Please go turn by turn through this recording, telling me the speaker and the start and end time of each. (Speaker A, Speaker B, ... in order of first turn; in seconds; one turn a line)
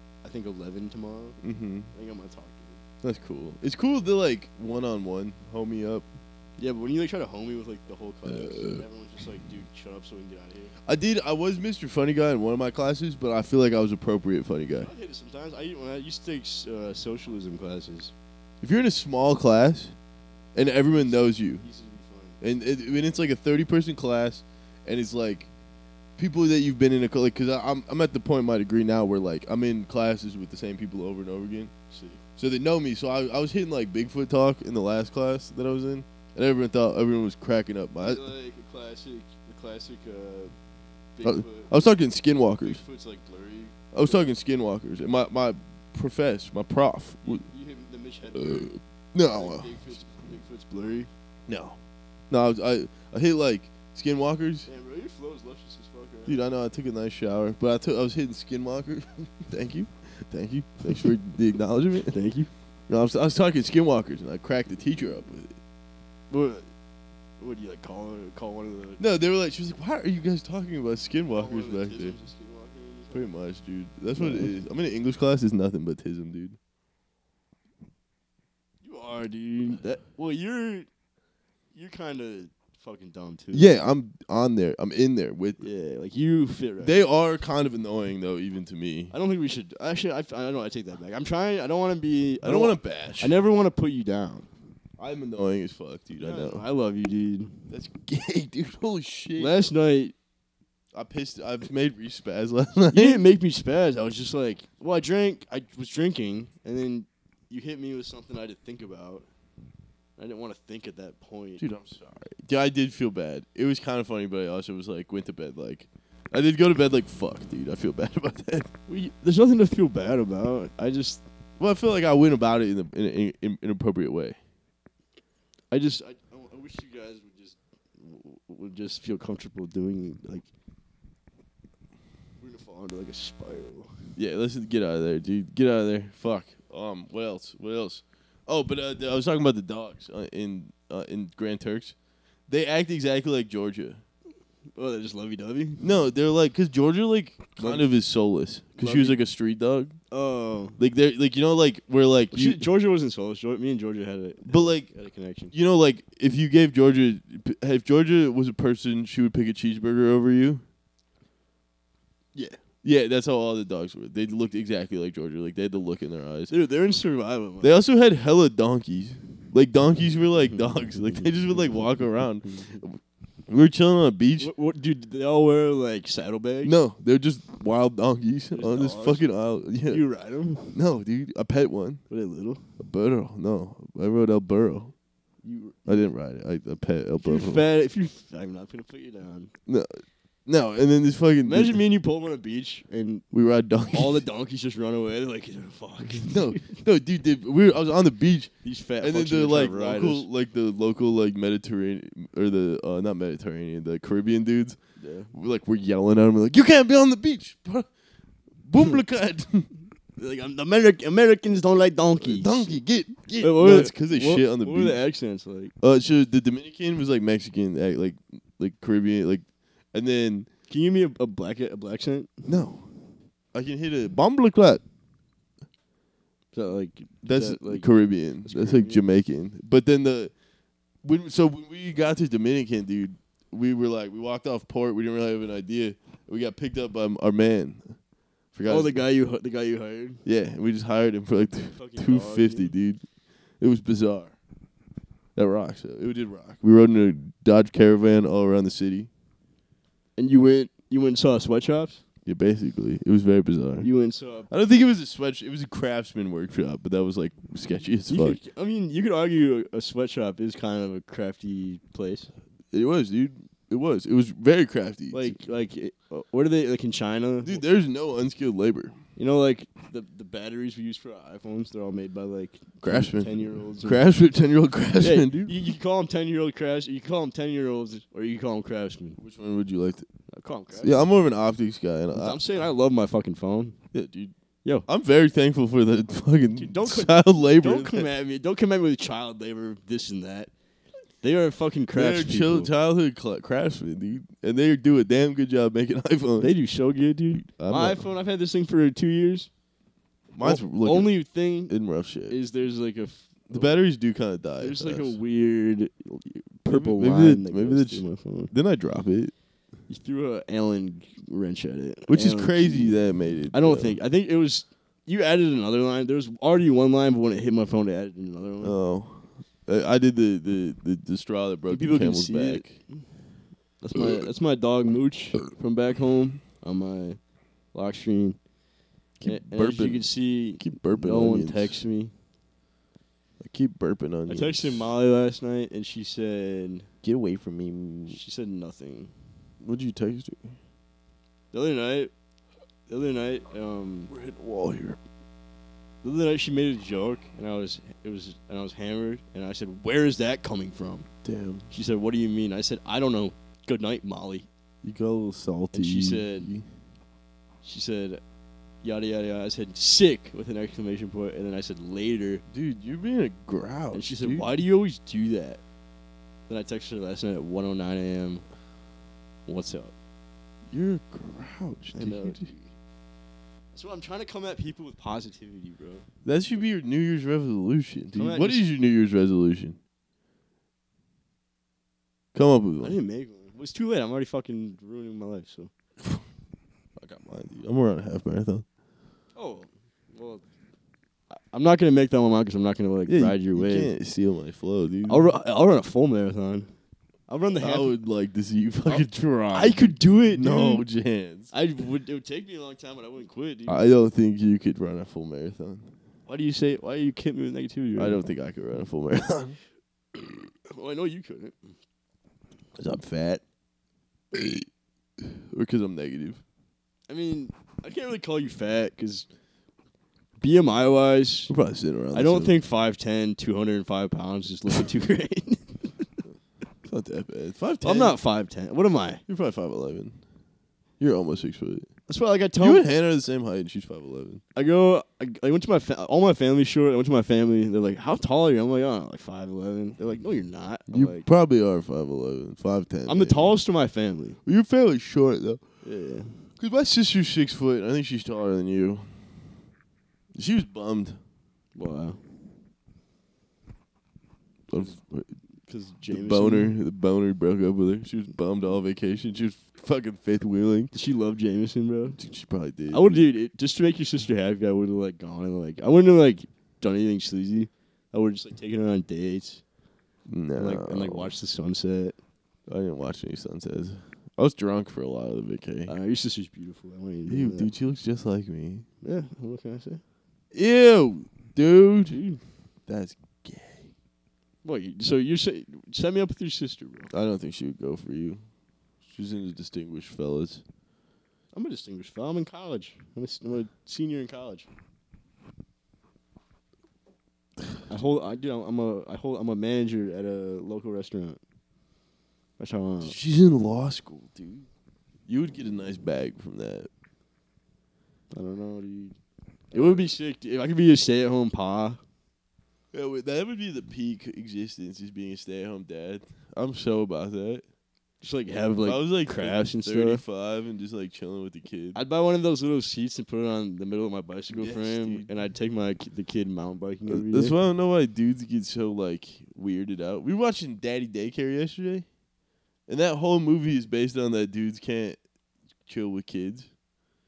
Speaker A: 0.2-1.4
Speaker B: 1.4-1.9
Speaker A: 1.9-2.8
Speaker B: 3.0-6.1
Speaker A: 6.6-10.7
Speaker B: 10.9-14.9
Speaker A: 14.8-18.1
Speaker B: 18.6-19.9
Speaker B: 20.6-21.6
Speaker A: 21.0-22.4
Speaker B: 22.4-25.5
Speaker B: 26.2-31.7
Speaker A: 31.9-32.2
Speaker B: 32.4-38.3
Speaker A: 38.0-40.5
Speaker A: 41.2-41.7
Speaker B: 41.2-42.8
Speaker A: 42.6-44.2
Speaker B: 43.9-47.5
Speaker A: 47.2-48.7
Speaker B: 48.4-49.7
Speaker A: 49.2-51.1
Speaker B: 51.5-51.8
Speaker B: 52.3-54.7
Speaker A: 54.7-56.4
Speaker B: 56.3-62.1
Speaker A: 62.1-62.5
Speaker B: 62.9-65.6
Speaker A: 66.3-66.7
Speaker A: 67.4-69.0
Speaker B: 69.0-72.2
Speaker A: 71.3-73.3
Speaker B: 73.1-76.6
Speaker A: 74.2-74.5
Speaker A: 78.8-80.9
Speaker A: 81.7-83.7
Speaker B: 83.5-85.7
Speaker A: 85.6-87.0
Speaker B: 86.8-89.1
Speaker A: 89.1-94.5
Speaker B: 92.4-93.4
Speaker B: 95.0-96.6
Speaker A: 96.2-97.6
Speaker B: 97.7-99.6
Speaker A: 99.4-100.2
Speaker B: 100.9-103.2
Speaker A: 102.9-109.3
Speaker A: 110.2-111.6
Speaker B: 111.6-118.7
Speaker A: 118.9-121.2
Speaker B: 121.6-124.4
Speaker A: 125.7-130.5
Speaker A: 132.4-134.1
Speaker B: 134.2-141.9
Speaker B: 142.5-144.0
Speaker A: 144.7-145.8
Speaker B: 145.8-150.0
Speaker A: 147.6-147.9
Speaker A: 148.8-149.2
Speaker A: 150.1-150.8
Speaker B: 150.8-152.6
Speaker A: 152.3-155.5
Speaker B: 154.5-154.9
Speaker B: 155.5-160.6
Speaker A: 162.3-162.6
Speaker B: 162.8-166.5
Speaker A: 166.5-167.7
Speaker B: 167.6-174.5
Speaker A: 174.4-176.7
Speaker B: 176.6-180.0
Speaker A: 178.5-179.3
Speaker A: 179.9-180.8
Speaker B: 180.7-182.0
Speaker A: 182.1-182.6
Speaker B: 182.8-184.9
Speaker A: 185.4-186.1
Speaker B: 185.9-187.7
Speaker A: 187.2-189.5
Speaker B: 189.7-191.8
Speaker A: 191.4-193.2
Speaker B: 193.3-194.2
Speaker A: 193.9-196.6
Speaker B: 196.3-204.8
Speaker A: 198.6-200.3
Speaker A: 205.0-205.3
Speaker B: 205.3-207.9
Speaker B: 208.6-209.7
Speaker A: 210.2-212.8
Speaker B: 212.2-215.0
Speaker A: 213.4-215.7
Speaker B: 215.8-220.5
Speaker A: 220.7-222.5
Speaker B: 222.5-222.9
Speaker B: 223.5-224.8
Speaker A: 226.5-227.9
Speaker B: 227.2-230.3
Speaker A: 228.4-229.0
Speaker B: 231.0-238.0
Speaker B: 238.5-239.0
Speaker A: 238.7-240.2
Speaker B: 240.2-243.0
Speaker A: 241.5-242.7
Speaker B: 243.6-244.4
Speaker B: 245.4-249.1
Speaker A: 250.2-252.0
Speaker B: 252.3-253.9
Speaker A: 253.8-254.5
Speaker B: 254.5-258.4
Speaker A: 258.1-262.3
Speaker B: 262.7-265.4
Speaker A: 265.1-267.6
Speaker B: 267.4-269.0
Speaker A: 269.2-274.0
Speaker B: 272.8-275.6
Speaker A: 275.0-279.2
Speaker B: 279.2-280.1
Speaker A: 280.3-281.1
Speaker B: 280.7-282.4
Speaker A: 282.2-283.8
Speaker B: 283.9-284.3
Speaker B: 284.9-288.1
Speaker A: 286.5-290.5
Speaker A: 291.2-292.7
Speaker B: 291.9-296.5
Speaker A: 296.4-299.5
Speaker B: 297.4-298.1
Speaker B: 300.3-302.4
Speaker A: 300.4-301.7
Speaker A: 302.3-303.8
Speaker B: 303.5-305.2
Speaker A: 304.6-308.5
Speaker B: 306.7-309.3
Speaker A: 309.9-313.0
Speaker B: 312.1-314.0
Speaker A: 313.5-318.8
Speaker B: 318.6-322.8
Speaker A: 321.7-323.1
Speaker A: 323.8-327.2
Speaker A: 327.7-328.4
Speaker B: 329.2-330.1
Speaker A: 329.2-332.1
Speaker B: 330.6-331.8
Speaker B: 333.4-334.9
Speaker A: 334.3-336.9
Speaker B: 337.0-338.2
Speaker A: 338.1-339.1
Speaker B: 339.6-340.6
Speaker A: 341.5-342.1
Speaker A: 342.9-344.1
Speaker B: 344.1-345.0
Speaker A: 346.0-351.1
Speaker B: 351.2-351.7
Speaker A: 351.7-354.5
Speaker B: 354.8-356.7
Speaker A: 355.7-356.5
Speaker A: 357.6-358.2
Speaker A: 358.8-362.4
Speaker B: 362.5-364.5
Speaker A: 363.9-365.6
Speaker A: 366.5-368.4
Speaker A: 369.5-369.9
Speaker B: 370.7-372.5
Speaker A: 371.9-372.7
Speaker A: 373.7-376.1
Speaker B: 376.2-379.8
Speaker A: 378.1-378.7
Speaker B: 382.3-383.0
Speaker A: 382.8-385.7
Speaker B: 387.0-388.6
Speaker A: 389.4-390.4
Speaker A: 391.3-393.9
Speaker B: 393.1-395.3
Speaker A: 395.1-396.7
Speaker A: 397.3-397.9
Speaker B: 397.6-401.5
Speaker A: 398.9-400.9
Speaker A: 401.5-403.8
Speaker B: 403.7-405.9
Speaker A: 406.3-408.2
Speaker B: 408.0-409.6
Speaker A: 410.7-411.7
Speaker B: 412.8-413.4
Speaker B: 414.3-414.7
Speaker B: 415.2-416.4
Speaker A: 417.1-419.3
Speaker A: 420.4-421.5
Speaker B: 421.5-422.6
Speaker A: 422.1-426.2
Speaker B: 426.8-428.2
Speaker A: 427.8-429.2
Speaker B: 429.3-430.2
Speaker B: 431.0-431.9
Speaker A: 432.1-432.9
Speaker B: 432.6-434.4
Speaker A: 434.6-441.3
Speaker B: 440.9-443.6
Speaker A: 443.1-444.4
Speaker B: 444.4-445.7
Speaker A: 445.8-446.4
Speaker B: 446.6-449.3
Speaker B: 450.4-451.2
Speaker A: 451.8-452.2
Speaker B: 454.7-455.4
Speaker A: 455.7-456.8
Speaker B: 456.1-460.9
Speaker A: 460.9-462.2
Speaker B: 462.2-463.3
Speaker A: 462.9-469.6
Speaker B: 470.3-471.3
Speaker A: 470.6-472.2
Speaker B: 472.7-475.9
Speaker A: 475.9-477.7
Speaker B: 477.3-478.9
Speaker A: 479.0-480.0
Speaker B: 480.5-482.2
Speaker A: 482.1-482.4
Speaker B: 482.9-483.9
Speaker A: 484.6-487.1
Speaker B: 487.1-488.4
Speaker B: 489.1-490.6
Speaker A: 491.5-494.7
Speaker A: 497.9-501.4
Speaker A: 502.6-503.2
Speaker B: 503.0-504.7
Speaker B: 505.3-506.9
Speaker A: 508.3-509.2
Speaker A: 509.7-512.0
Speaker B: 509.7-510.1
Speaker B: 512.9-517.6
Speaker A: 518.2-520.2
Speaker B: 518.8-522.0
Speaker A: 522.0-527.6
Speaker B: 524.5-525.3
Speaker B: 527.1-532.1
Speaker B: 532.9-535.2
Speaker B: 535.9-536.7